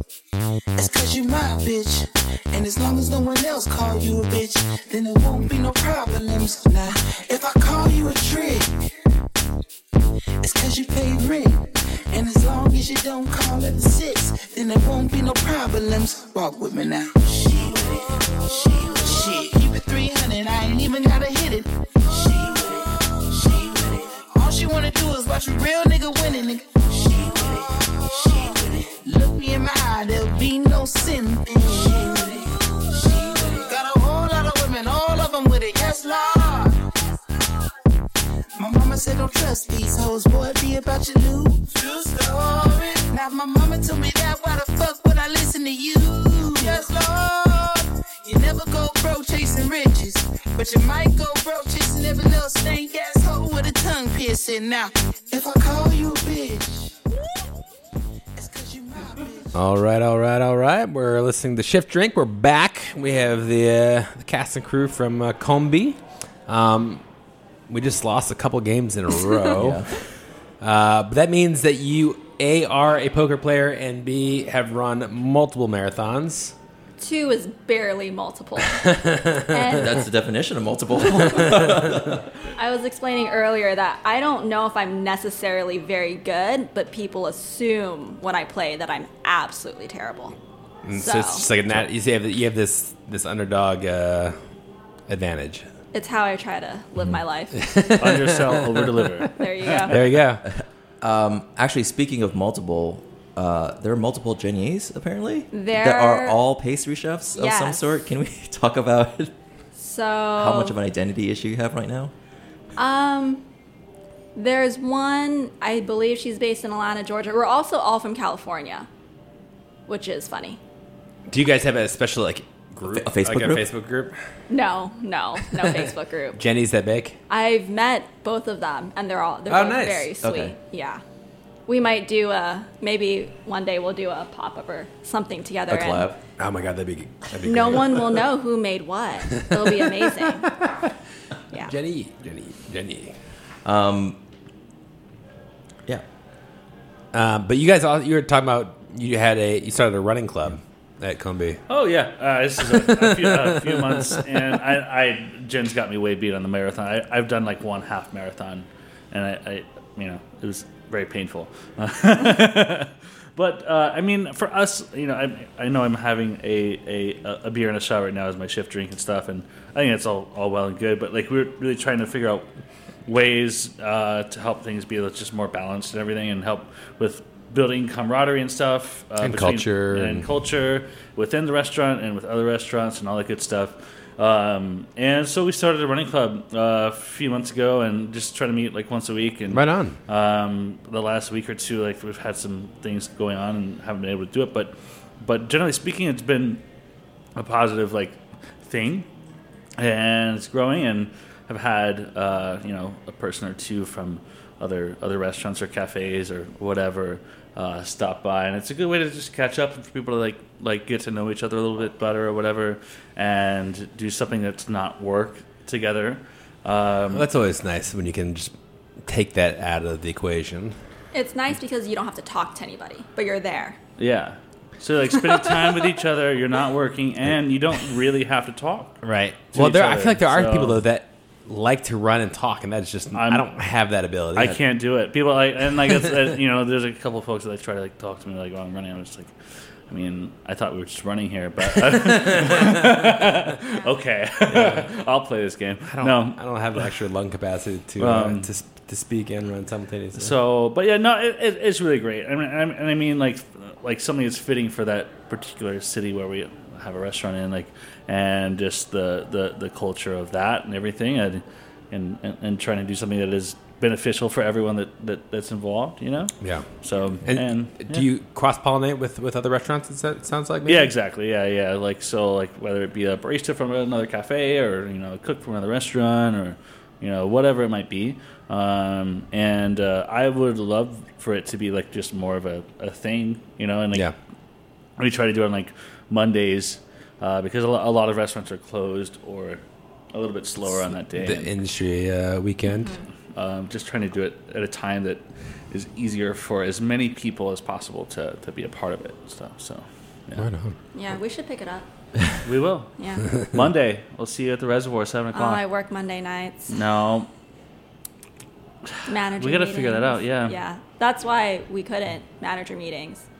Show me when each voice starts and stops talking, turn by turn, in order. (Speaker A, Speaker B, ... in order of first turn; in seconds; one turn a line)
Speaker A: 0.8-8.9
Speaker A: 10.4-37.0
Speaker A: 38.6-57.1
Speaker A: 58.4-59.6
Speaker B: 59.5-67.0
Speaker B: 67.7-70.0
Speaker C: 69.6-69.9
Speaker B: 70.6-76.5
Speaker D: 77.0-80.1
Speaker C: 79.7-82.3
Speaker D: 82.6-90.4
Speaker B: 90.8-94.4
Speaker D: 90.9-91.5
Speaker B: 95.1-95.7
Speaker D: 95.9-97.8
Speaker B: 97.6-98.6
Speaker E: 98.0-99.9
Speaker D: 99.4-100.0
Speaker B: 99.9-100.4
Speaker C: 100.5-109.3
Speaker D: 105.5-106.4
Speaker D: 107.3-107.9
Speaker D: 109.8-110.8
Speaker C: 110.4-112.1
Speaker D: 112.8-113.5
Speaker D: 114.3-118.9
Speaker D: 119.9-120.6
Speaker B: 121.3-124.2
Speaker C: 122.9-123.7
Speaker D: 124.5-126.4
Speaker B: 126.4-127.2
Speaker D: 127.3-131.0
Speaker B: 129.5-130.1
Speaker C: 130.2-130.6
Speaker D: 131.7-136.1
Speaker C: 135.7-136.2
Speaker B: 136.4-138.2
Speaker D: 137.4-140.6
Speaker B: 139.5-140.3
Speaker B: 141.7-143.2
Speaker C: 143.7-144.2
Speaker B: 147.1-151.6
Speaker E: 151.7-172.4
Speaker E: 173.1-196.6
Speaker B: 179.2-180.3
Speaker B: 189.5-190.0
Speaker E: 197.4-199.1
Speaker E: 199.8-217.3
Speaker B: 217.1-218.5
Speaker B: 219.1-220.8
Speaker D: 221.1-223.8
Speaker E: 224.0-229.0
Speaker B: 229.0-234.6
Speaker E: 229.5-230.8
Speaker E: 233.1-233.4
Speaker E: 234.4-239.3
Speaker E: 239.9-246.4
Speaker B: 244.5-244.9
Speaker B: 245.9-250.3
Speaker E: 248.0-248.5
Speaker E: 250.2-268.1
Speaker B: 266.4-266.7
Speaker B: 267.2-270.9
Speaker E: 270.7-284.1
Speaker E: 285.0-291.5
Speaker B: 291.1-292.9
Speaker D: 292.7-293.0
Speaker E: 293.3-300.4
Speaker B: 300.4-300.8
Speaker D: 300.9-301.9
Speaker E: 302.4-305.6
Speaker D: 303.0-303.3
Speaker D: 305.3-306.7
Speaker E: 306.7-307.3
Speaker D: 309.1-313.2
Speaker E: 309.4-310.6